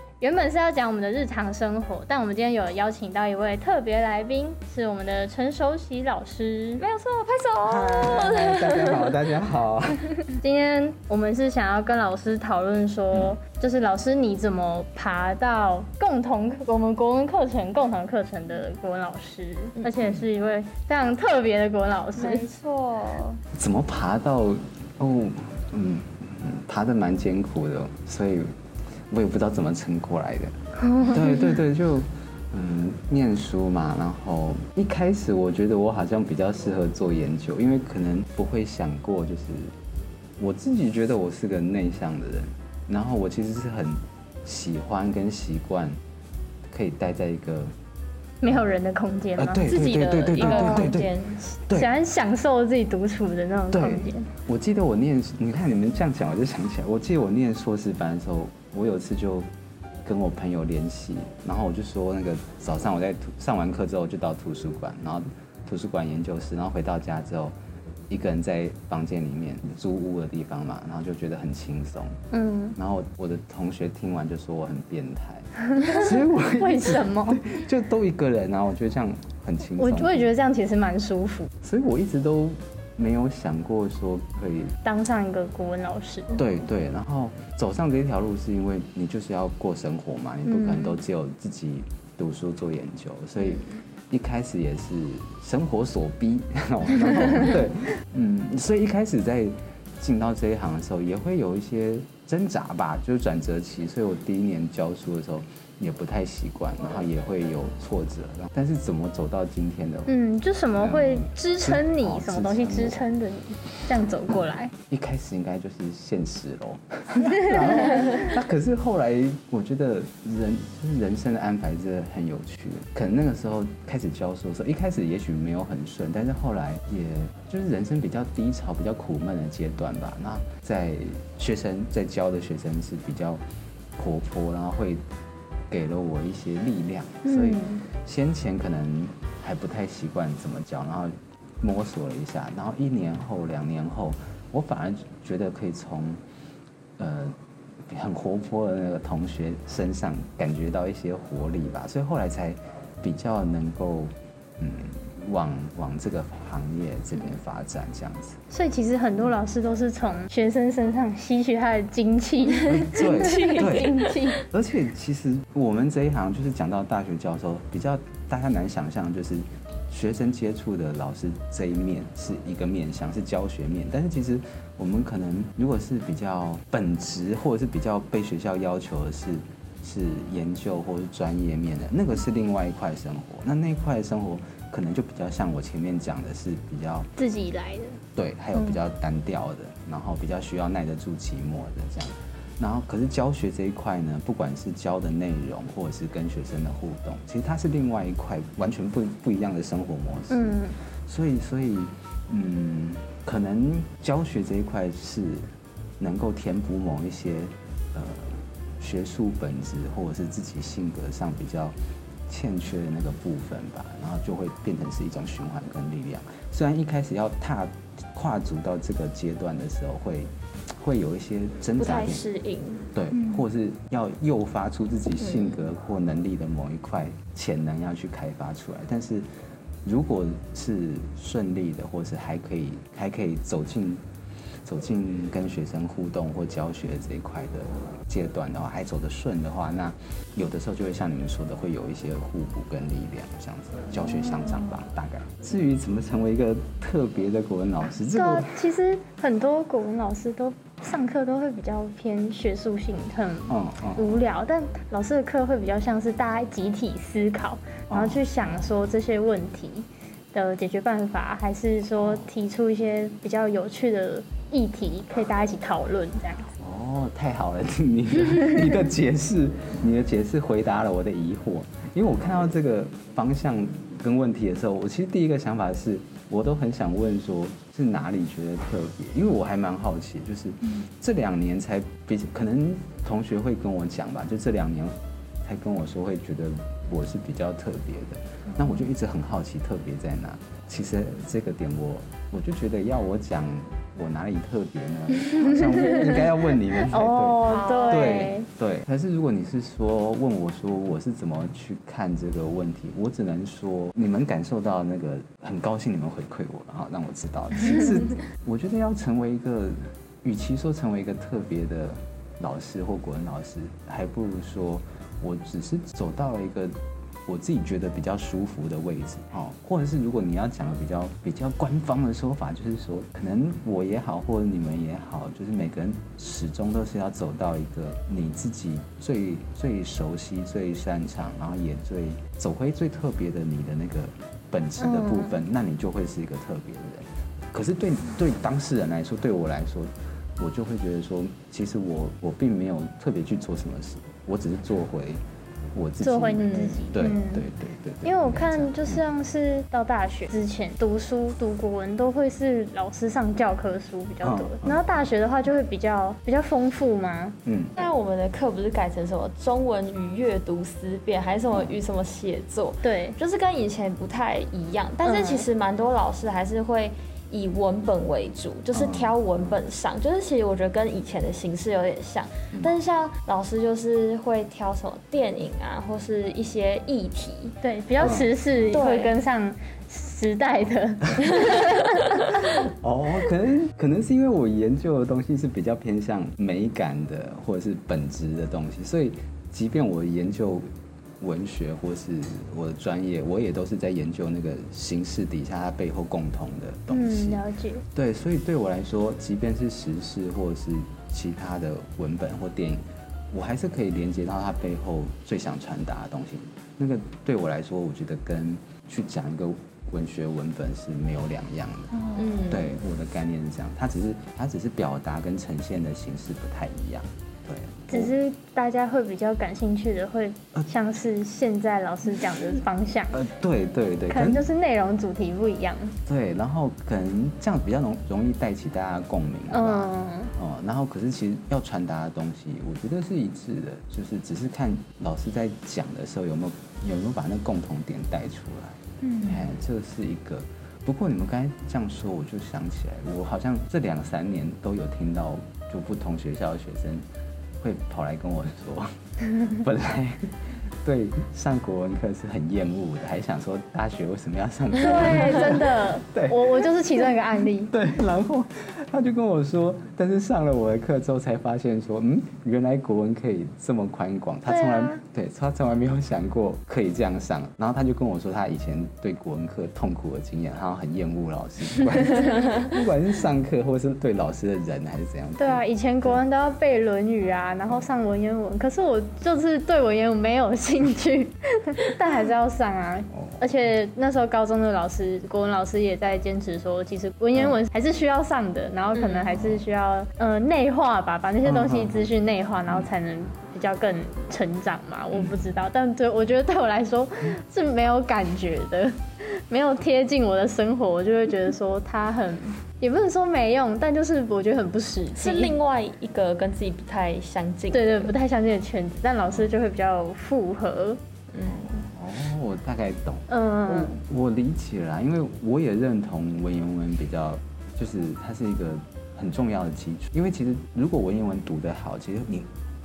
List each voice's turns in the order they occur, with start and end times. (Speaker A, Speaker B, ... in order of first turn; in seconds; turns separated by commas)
Speaker A: 0.2-6.8, Speaker B: 6.8-9.2, Speaker C: 7.6-10.2, Speaker A: 10.3-22.4, Speaker B: 22.2-23.4, Speaker C: 23.5-28.4, Speaker C: 29.1-39.7, Speaker A: 30.9-31.2, Speaker C: 40.4-46.0, Speaker C: 46.7-47.7, Speaker A: 48.4-49.6, Speaker C: 49.4-51.1, Speaker B: 49.6-51.4, Speaker A: 50.4-50.9, Speaker A: 51.7-54.3, Speaker C: 53.7-59.5, Speaker C: 60.0-67.5, Speaker C: 68.1-72.2, Speaker A: 72.3-72.8, Speaker C: 72.8-80.3, Speaker A: 75.8-77.4, Speaker A: 79.8-81.5, Speaker C: 81.6-84.7, Speaker A: 84.8-86.4, Speaker C: 86.3-110.1, Speaker A: 90.4-91.0, Speaker A: 110.1-114.7, Speaker C: 110.8-113.0, Speaker C: 114.9-133.4, Speaker C: 133.9-135.0, Speaker C: 135.7-146.2, Speaker A: 137.2-137.8, Speaker C: 147.0-147.3, Speaker C: 147.9-158.4, Speaker A: 158.5-164.4, Speaker B: 162.6-164.2, Speaker C: 162.7-187.1, Speaker A: 187.2-188.0, Speaker C: 188.1-211.7, Speaker A: 188.5-188.8, Speaker A: 200.3-200.8, Speaker C: 212.3-222.3, Speaker B: 221.8-222.8, Speaker C: 222.9-229.2, Speaker B: 225.2-225.7, Speaker C: 229.8-234.0, Speaker C: 234.7-248.5, Speaker A: 248.1-266.5, Speaker C: 253.5-254.1, Speaker C: 257.9-258.7, Speaker C: 262.0-262.3, Speaker C: 266.6-345.2, Speaker A: 295.4-296.1, Speaker A: 296.8-298.5, Speaker B: 297.5-298.3, Speaker A: 334.8-335.4, Speaker C: 345.7-349.0, Speaker A: 346.0-347.4, Speaker A: 348.0-357.4, Speaker C: 354.2-354.9, Speaker C: 357.4-357.8, Speaker B: 357.8-377.5, Speaker C: 361.5-361.8, Speaker A: 362.8-363.2, Speaker A: 365.0-365.5, Speaker C: 368.7-369.6, Speaker A: 377.6-382.2, Speaker C: 378.0-378.3, Speaker B: 378.7-379.1, Speaker C: 382.8-390.6, Speaker C: 391.2-397.4, Speaker A: 396.9-397.8, Speaker C: 397.9-418.1, Speaker B: 412.1-412.7, Speaker A: 417.9-423.2, Speaker C: 423.1-424.5, Speaker A: 424.1-425.9, Speaker C: 426.1-447.0, Speaker A: 429.5-430.3, Speaker C: 447.6-457.1, Speaker A: 454.8-457.7, Speaker C: 457.7-476.2, Speaker A: 464.4-465.0, Speaker A: 475.4-505.5, Speaker C: 483.1-483.5, Speaker B: 488.9-489.4, Speaker C: 491.4-492.0, Speaker C: 495.1-495.5, Speaker B: 505.1-508.1, Speaker A: 507.7-511.0, Speaker B: 511.3-511.8, Speaker C: 511.7-522.5, Speaker A: 513.3-514.0